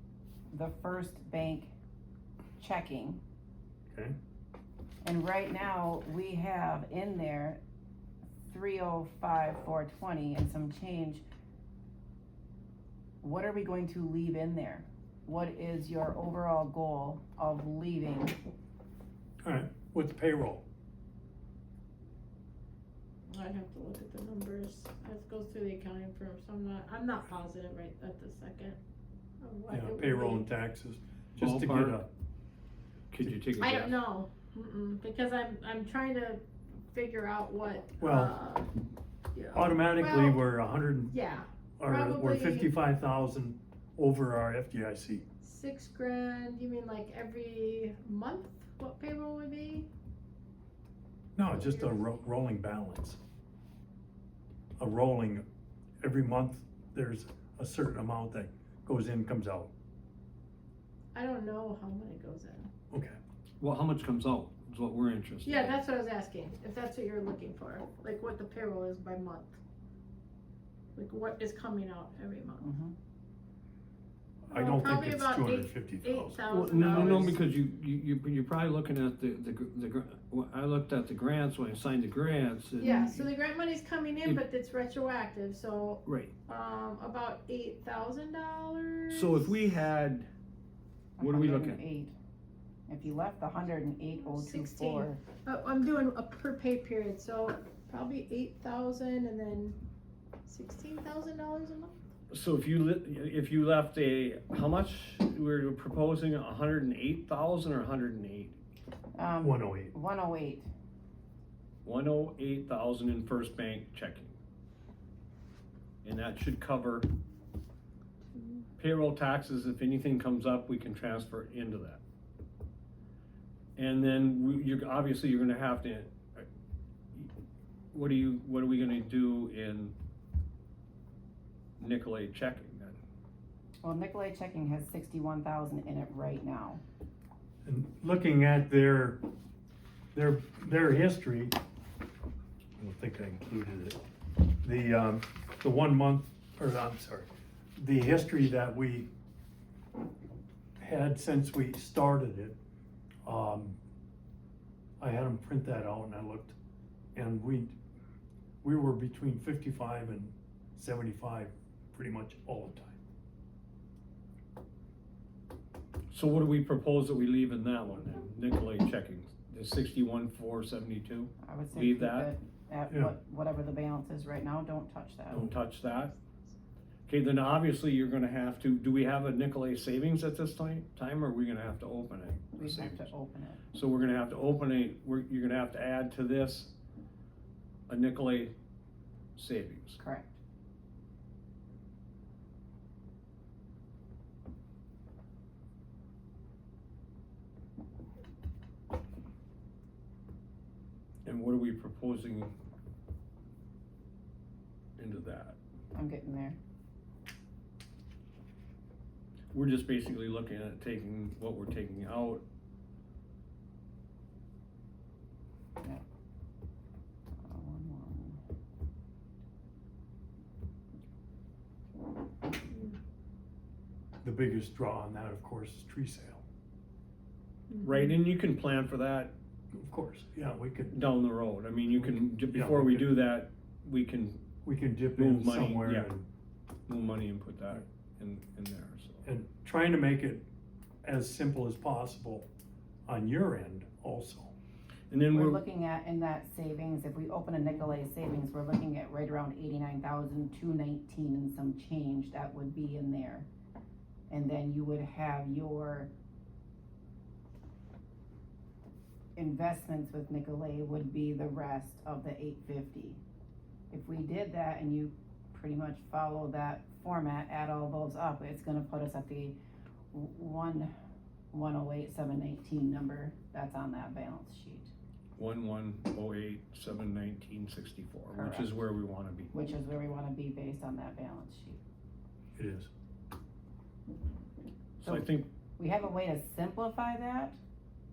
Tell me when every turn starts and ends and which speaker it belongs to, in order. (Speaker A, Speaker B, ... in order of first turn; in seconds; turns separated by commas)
Speaker A: 0.5-1.7, Speaker A: 2.6-3.2, Speaker A: 5.0-7.6, Speaker A: 8.5-11.2, Speaker A: 13.2-18.4, Speaker B: 19.4-20.6, Speaker C: 23.3-28.8, Speaker C: 29.4-30.4, Speaker B: 29.7-32.1, Speaker D: 31.4-32.0, Speaker D: 33.1-34.0, Speaker C: 33.6-38.7, Speaker B: 38.0-38.3, Speaker C: 39.3-40.4, Speaker B: 39.5-41.1, Speaker C: 41.1-42.7, Speaker B: 41.8-45.2, Speaker C: 45.4-49.9, Speaker B: 51.4-53.2, Speaker C: 51.7-52.1, Speaker B: 54.8-55.4, Speaker B: 56.0-59.7, Speaker C: 61.1-62.7, Speaker B: 62.9-63.2, Speaker D: 63.6-65.8, Speaker C: 65.4-69.6, Speaker C: 71.0-72.7, Speaker A: 72.6-72.9, Speaker B: 74.5-77.4, Speaker C: 74.5-77.4, Speaker D: 76.5-83.3, Speaker C: 82.8-89.6, Speaker D: 86.1-86.3, Speaker D: 89.1-90.3, Speaker D: 91.2-91.8, Speaker A: 91.2-92.1, Speaker A: 92.9-95.2, Speaker C: 94.3-99.8, Speaker C: 100.5-102.0, Speaker D: 102.3-108.6, Speaker A: 109.2-110.7, Speaker B: 109.4-109.9, Speaker D: 111.8-114.4, Speaker D: 116.0-117.1, Speaker C: 118.4-118.6, Speaker D: 118.8-122.0, Speaker D: 123.8-126.5, Speaker D: 127.9-129.9, Speaker D: 131.8-133.0, Speaker A: 133.8-136.8, Speaker B: 137.7-139.2, Speaker B: 140.1-141.6, Speaker B: 142.8-144.0, Speaker B: 144.6-149.1, Speaker B: 150.8-152.6, Speaker B: 153.2-153.8, Speaker B: 155.0-156.6, Speaker B: 157.2-157.8, Speaker B: 158.6-163.0, Speaker D: 166.1-172.3, Speaker A: 171.4-175.5, Speaker D: 175.3-176.1, Speaker D: 177.1-183.1, Speaker A: 182.6-183.6, Speaker D: 183.7-186.8, Speaker D: 187.9-188.5, Speaker D: 189.4-190.0, Speaker A: 190.0-190.4, Speaker D: 201.2-202.5, Speaker D: 205.0-205.6, Speaker A: 205.9-206.6, Speaker D: 209.5-212.4, Speaker A: 217.4-218.4, Speaker B: 224.2-226.4, Speaker D: 227.8-229.3, Speaker B: 229.7-231.0, Speaker D: 230.9-234.4, Speaker B: 232.0-233.2, Speaker B: 234.7-236.3, Speaker D: 235.1-236.1, Speaker D: 236.9-239.3, Speaker B: 239.2-240.4, Speaker B: 241.0-242.5, Speaker B: 243.1-244.5, Speaker D: 245.1-245.6, Speaker A: 245.3-253.5, Speaker A: 254.3-256.1, Speaker A: 259.4-263.2, Speaker A: 263.9-269.6, Speaker A: 270.1-270.9, Speaker A: 271.5-274.9, Speaker D: 275.4-279.6, Speaker A: 278.3-278.8, Speaker A: 279.5-281.8, Speaker B: 282.6-282.9, Speaker D: 285.0-285.5, Speaker A: 285.8-287.6